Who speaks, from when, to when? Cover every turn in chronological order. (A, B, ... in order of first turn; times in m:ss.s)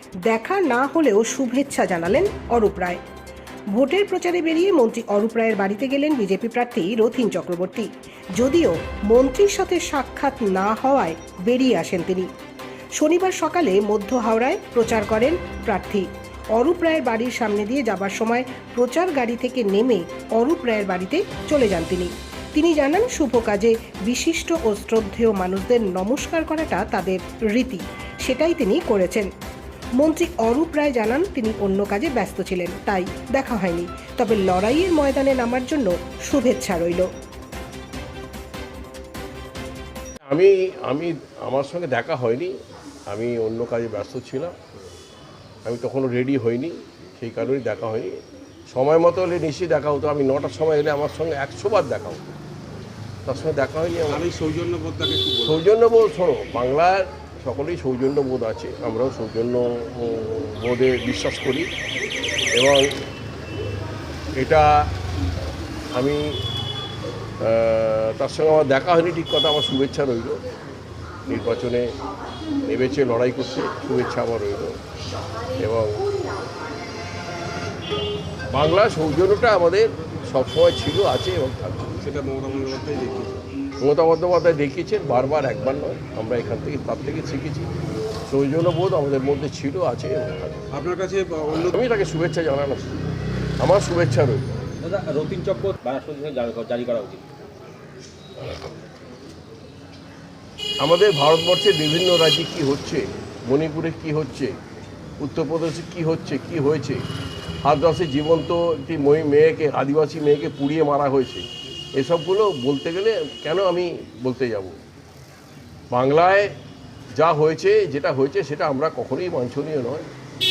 0:00.2-0:03.0 A
0:03.7-0:12.3 A
0:13.0-0:29.3 A
0:30.0-0:37.1 A
0:40.3-0:42.6 B
0:43.1-0:44.6 B
0:45.6-0:48.2 B
0:48.7-0:52.4 B
0:53.3-0:54.3 B
0:54.1-0:55.6 C
0:55.5-1:01.7 B
1:02.5-1:02.9 B
1:04.4-1:04.8 B
1:06.0-1:06.3 B
1:07.4-1:10.4 B
1:11.3-1:11.9 B
1:12.7-1:14.8 B
1:15.6-1:16.1 B
1:18.5-1:21.9 B
1:22.0-1:23.5 C
1:23.8-1:27.7 B
1:28.3-1:30.7 B
1:30.7-1:31.7 C
1:31.6-1:32.9 B
1:33.6-1:34.6 B
1:34.8-1:37.2 D
1:40.8-1:44.6 B
1:45.2-1:47.0 B
1:47.7-1:54.8 B
1:55.9-1:56.5 B
1:57.2-2:00.1 B